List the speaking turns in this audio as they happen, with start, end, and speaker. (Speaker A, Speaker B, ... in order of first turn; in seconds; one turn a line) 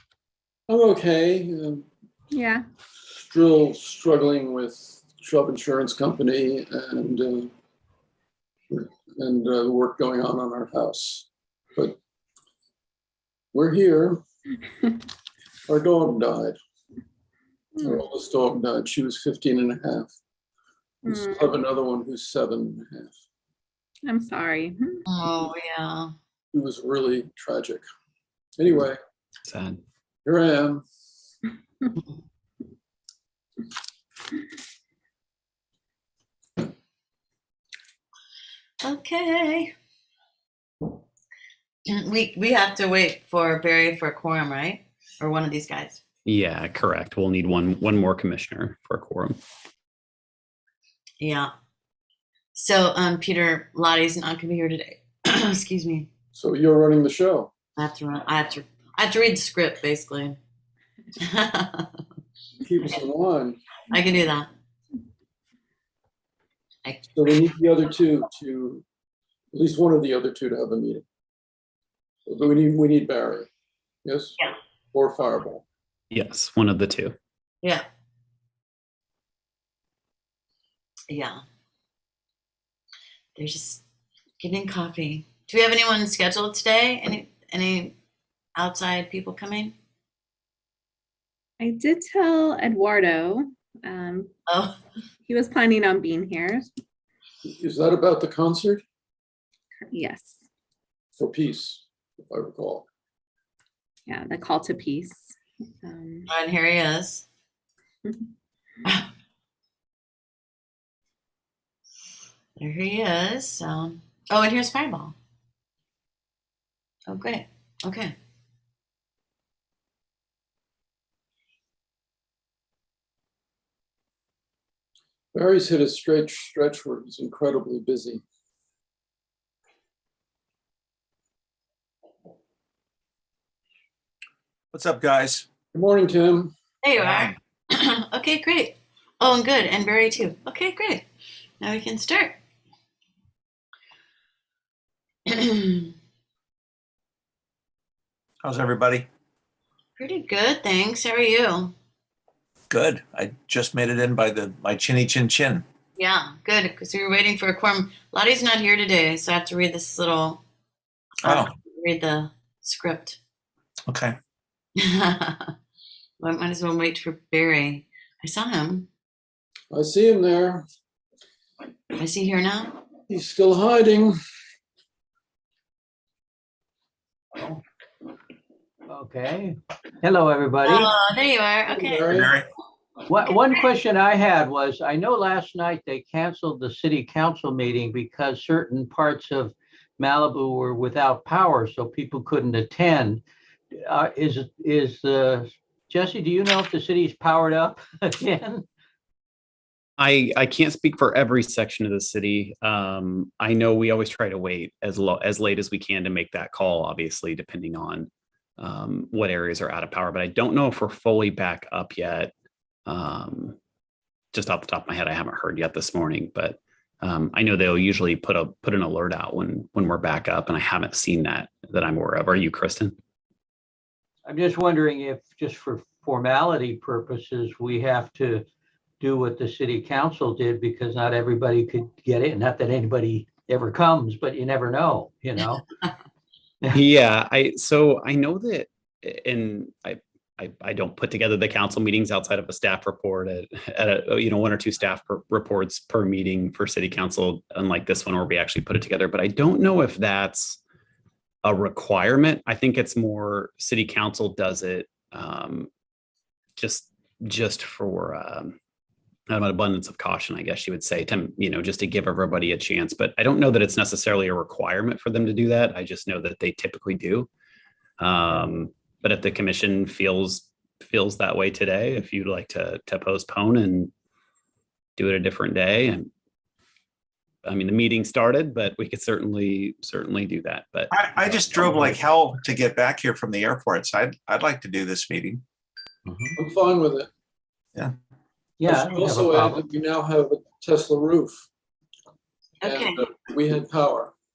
Speaker A: 0.7-1.9
Speaker B: 2.3-2.6
Speaker A: 3.1-7.5
Speaker A: 8.7-12.0
Speaker A: 13.5-14.2
Speaker A: 15.7-16.6
Speaker B: 17.8-18.0
Speaker A: 17.8-20.1
Speaker A: 21.1-23.1
Speaker B: 21.1-21.4
Speaker B: 24.0-25.0
Speaker C: 25.1-26.1
Speaker A: 26.5-27.8
Speaker A: 28.6-29.0
Speaker D: 29.4-29.8
Speaker A: 30.2-30.8
Speaker C: 38.8-39.7
Speaker C: 41.9-46.0
Speaker D: 46.2-49.4
Speaker C: 51.2-51.5
Speaker C: 52.5-56.1
Speaker A: 56.3-57.5
Speaker C: 57.8-60.4
Speaker C: 61.2-62.0
Speaker A: 62.6-63.6
Speaker C: 63.9-64.5
Speaker A: 67.1-68.8
Speaker A: 69.5-71.0
Speaker A: 72.2-73.5
Speaker A: 74.0-74.4
Speaker A: 74.9-75.6
Speaker D: 76.1-77.1
Speaker C: 81.1-81.4
Speaker C: 83.3-83.8
Speaker C: 84.4-87.9
Speaker C: 88.5-89.7
Speaker B: 91.6-94.3
Speaker C: 94.5-94.8
Speaker B: 95.3-96.7
Speaker A: 97.4-98.8
Speaker B: 99.9-100.4
Speaker A: 101.2-102.9
Speaker B: 104.1-106.3
Speaker C: 106.3-107.2
Speaker C: 112.5-115.1
Speaker C: 117.1-118.1
Speaker A: 125.3-128.2
Speaker E: 134.7-135.4
Speaker A: 135.7-136.5
Speaker C: 136.8-141.1
Speaker E: 137.0-137.3
Speaker C: 141.6-142.4
Speaker C: 145.3-145.9
Speaker E: 148.4-149.1
Speaker C: 150.0-151.7
Speaker E: 152.7-155.6
Speaker C: 155.9-160.4
Speaker E: 161.2-161.5
Speaker C: 161.2-163.2
Speaker E: 163.9-164.2
Speaker C: 164.8-165.5
Speaker C: 166.2-168.9
Speaker A: 169.7-170.6
Speaker C: 172.0-172.8
Speaker A: 173.1-174.2
Speaker F: 177.3-177.6
Speaker F: 178.9-180.9
Speaker C: 180.7-182.1
Speaker A: 181.7-182.3
Speaker E: 182.1-182.4
Speaker F: 183.1-193.2
Speaker F: 193.7-198.6
Speaker D: 200.0-208.1
Speaker D: 208.6-212.3
Speaker D: 212.8-213.6
Speaker D: 214.3-222.9
Speaker F: 224.2-228.4
Speaker F: 229.0-235.6
Speaker D: 236.7-250.6
Speaker D: 251.4-255.7
Speaker D: 256.6-258.6
Speaker D: 259.3-267.3
Speaker D: 268.0-273.9
Speaker D: 275.0-276.1
Speaker D: 277.4-282.0
Speaker E: 280.9-285.4
Speaker F: 286.1-286.3
Speaker A: 286.4-287.1
Speaker F: 288.6-289.6
Speaker A: 288.6-291.4
Speaker C: 292.6-293.0
Speaker A: 292.6-294.1